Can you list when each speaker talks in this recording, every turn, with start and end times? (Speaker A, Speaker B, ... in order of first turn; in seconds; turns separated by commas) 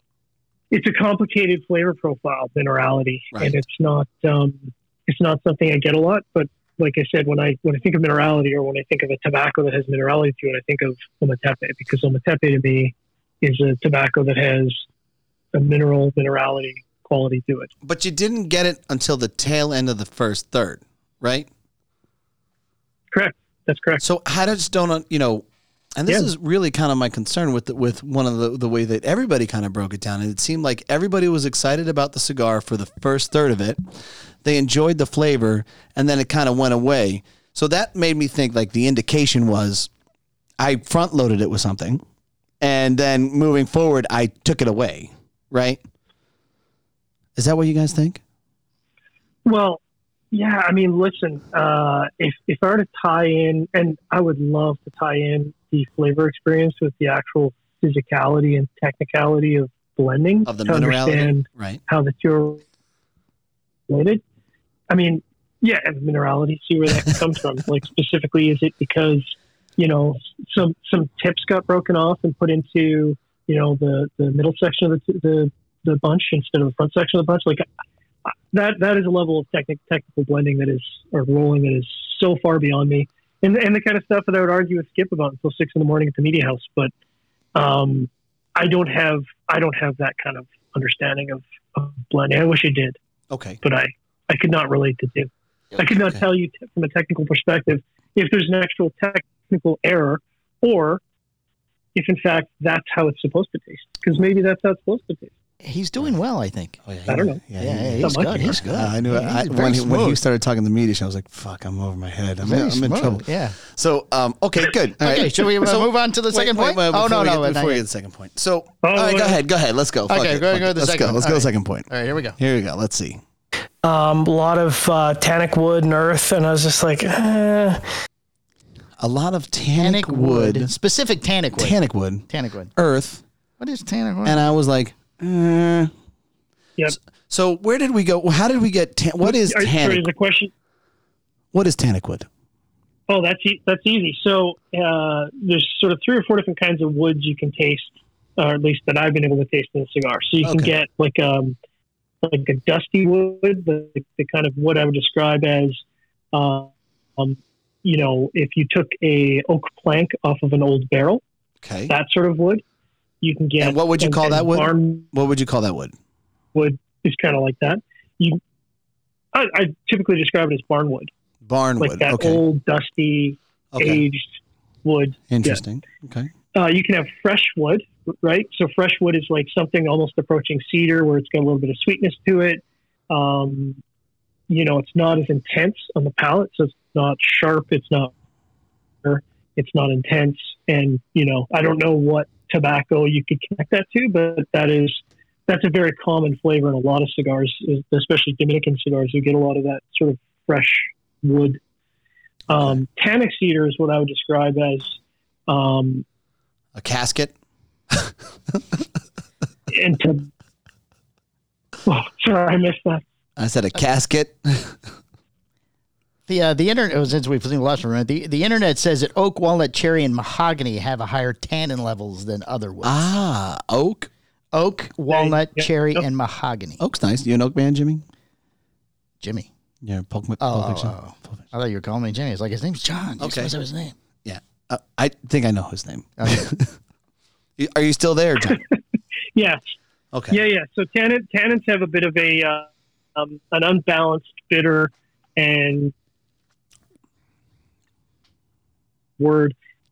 Speaker A: 0.7-14.8, Speaker A: 15.5-17.7, Speaker B: 17.8-21.5, Speaker A: 23.1-24.0, Speaker B: 24.0-25.4, Speaker B: 26.0-33.9, Speaker B: 34.4-39.9, Speaker B: 40.6-42.0, Speaker B: 42.6-45.8, Speaker B: 47.4-48.2, Speaker A: 49.4-49.8, Speaker A: 50.3-62.6, Speaker B: 60.5-61.8, Speaker A: 63.9-64.2, Speaker A: 64.9-77.7, Speaker A: 78.5-86.9, Speaker A: 87.5-93.0, Speaker B: 93.3-93.6, Speaker A: 93.6-101.0, Speaker B: 95.8-96.2, Speaker A: 101.9-105.3, Speaker C: 105.6-106.8, Speaker B: 106.8-123.2, Speaker A: 107.1-107.4, Speaker C: 107.6-110.2, Speaker A: 108.0-108.6, Speaker C: 112.4-113.5, Speaker C: 115.0-117.8, Speaker A: 118.8-119.4, Speaker C: 120.1-122.4, Speaker D: 123.8-127.8, Speaker B: 129.0-130.7, Speaker C: 129.8-132.7, Speaker B: 131.6-133.2, Speaker C: 133.6-134.4, Speaker B: 134.2-135.9, Speaker B: 137.3-140.1, Speaker A: 139.2-140.5, Speaker B: 141.5-142.3, Speaker A: 143.1-151.6, Speaker B: 150.4-150.7, Speaker A: 152.2-161.2, Speaker B: 161.6-161.9, Speaker A: 161.9-162.6, Speaker A: 163.2-165.1, Speaker B: 163.6-165.9, Speaker A: 166.5-168.4, Speaker A: 169.3-171.1, Speaker B: 171.4-172.4, Speaker A: 171.8-175.6, Speaker B: 173.7-174.0, Speaker B: 175.3-176.3, Speaker A: 176.5-183.8, Speaker A: 184.5-188.1, Speaker A: 189.0-201.6, Speaker A: 202.5-205.0, Speaker B: 202.5-202.8, Speaker A: 205.5-206.0, Speaker B: 206.7-207.3, Speaker B: 207.9-208.6, Speaker A: 209.7-210.3, Speaker A: 211.8-213.0, Speaker B: 213.4-214.9, Speaker C: 216.3-223.0, Speaker B: 222.8-224.1, Speaker C: 224.5-226.8, Speaker A: 225.1-226.0, Speaker B: 226.8-228.0, Speaker C: 229.2-229.5, Speaker B: 229.8-231.4, Speaker C: 230.4-233.9, Speaker B: 233.2-233.5, Speaker B: 234.2-236.7, Speaker C: 236.2-236.5, Speaker B: 237.6-238.6, Speaker A: 238.5-238.8, Speaker A: 239.3-239.6, Speaker B: 240.1-240.4, Speaker A: 240.3-245.9, Speaker A: 249.2-249.5